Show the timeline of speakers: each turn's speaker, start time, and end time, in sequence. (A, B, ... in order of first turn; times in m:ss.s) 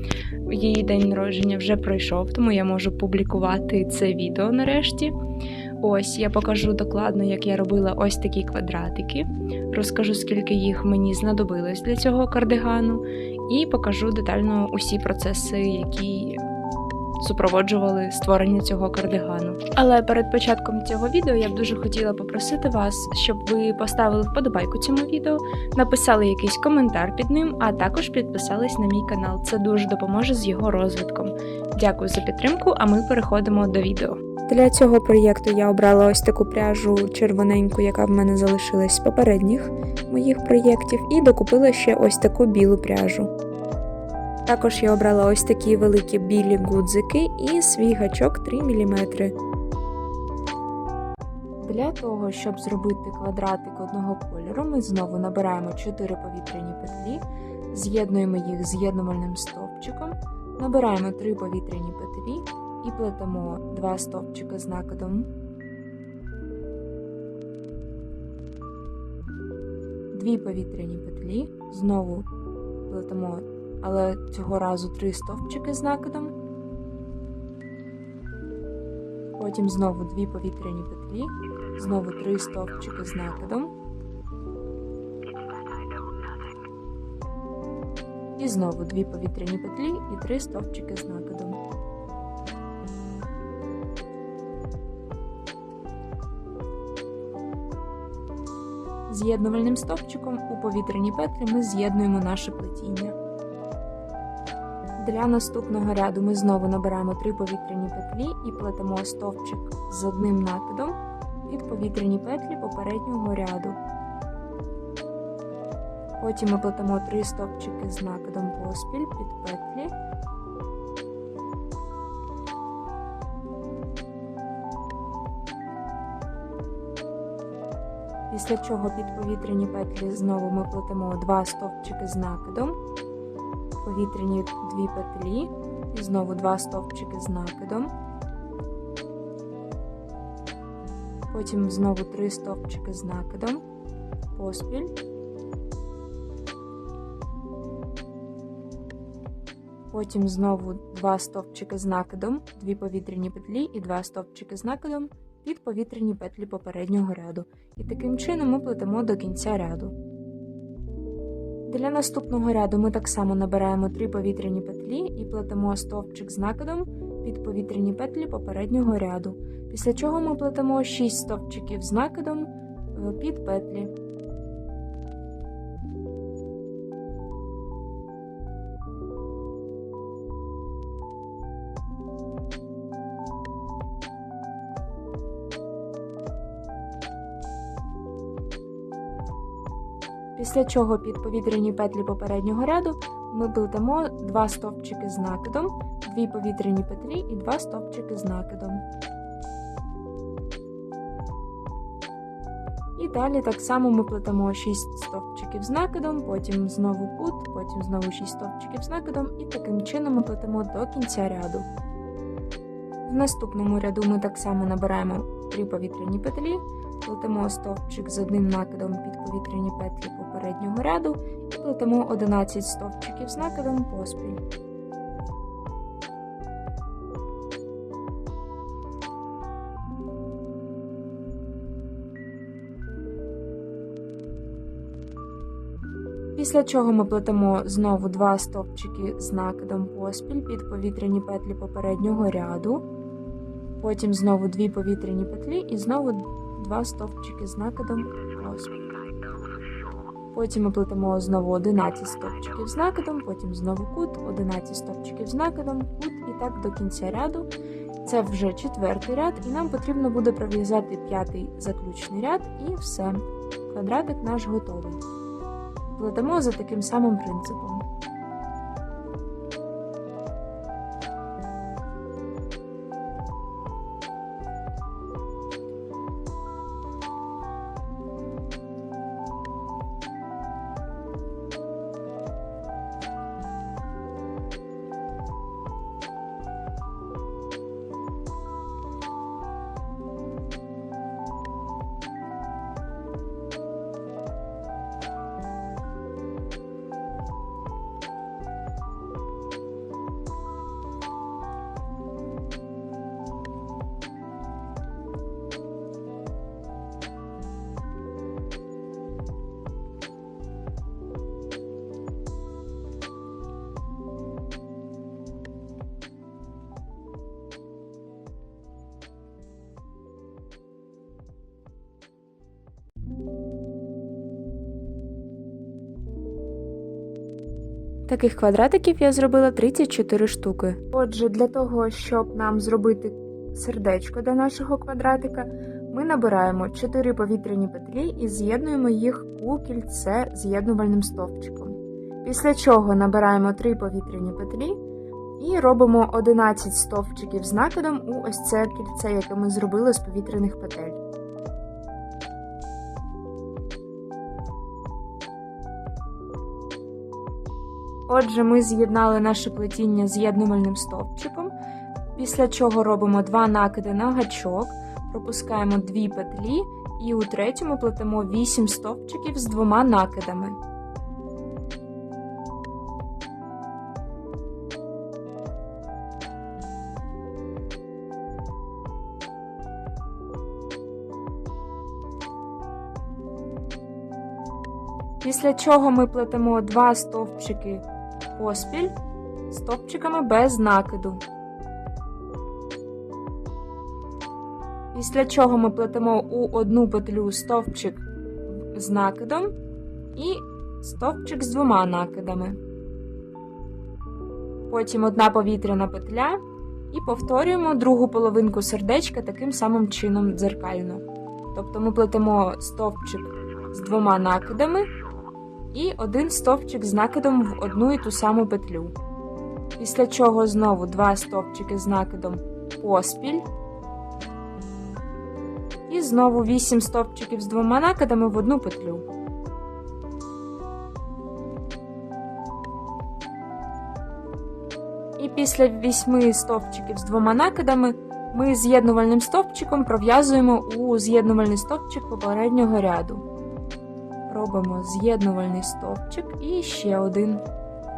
0:00.5-0:05.2 A
0:05.8-0:16.4 A
0:17.2-0:43.3 A
0:44.5-0:49.4 A
0:51.6-1:05.3 A
1:10.1-1:12.3 A
1:12.9-1:16.3 A
1:19.4-1:23.7 A
1:28.4-1:31.6 A
1:39.1-1:43.2 A
1:45.0-1:51.0 A
1:51.5-1:53.8 A
1:56.2-1:59.9 A
2:08.3-2:12.8 A
2:13.8-2:17.9 A
2:21.3-2:23.6 A
2:24.4-2:24.9 A
2:29.9-2:39.9 A
2:41.7-2:53.9 A
3:10.4-3:18.8 A
3:23.0-3:31.7 A
3:33.0-3:44.4 A
3:56.4-4:02.8 A
4:03.8-4:08.8 A
4:10.3-4:17.5 A
4:18.0-4:25.0 A
4:26.0-4:27.8 A
5:28.1-5:44.8 A
5:45.4-5:51.0 A
5:58.1-6:01.5 A
6:02.2-6:10.6 A
6:25.2-6:27.8 A
6:28.4-6:29.0 A
6:29.5-6:31.2 A
6:34.9-6:38.0 A
6:38.6-6:39.5 A
6:40.2-6:42.6 A
6:44.7-6:46.4 A
6:46.9-6:54.9 A
6:55.7-6:59.0 A
6:59.8-7:03.5 A
7:05.9-7:09.0 A
7:15.2-7:23.2 A
7:24.3-7:27.4 A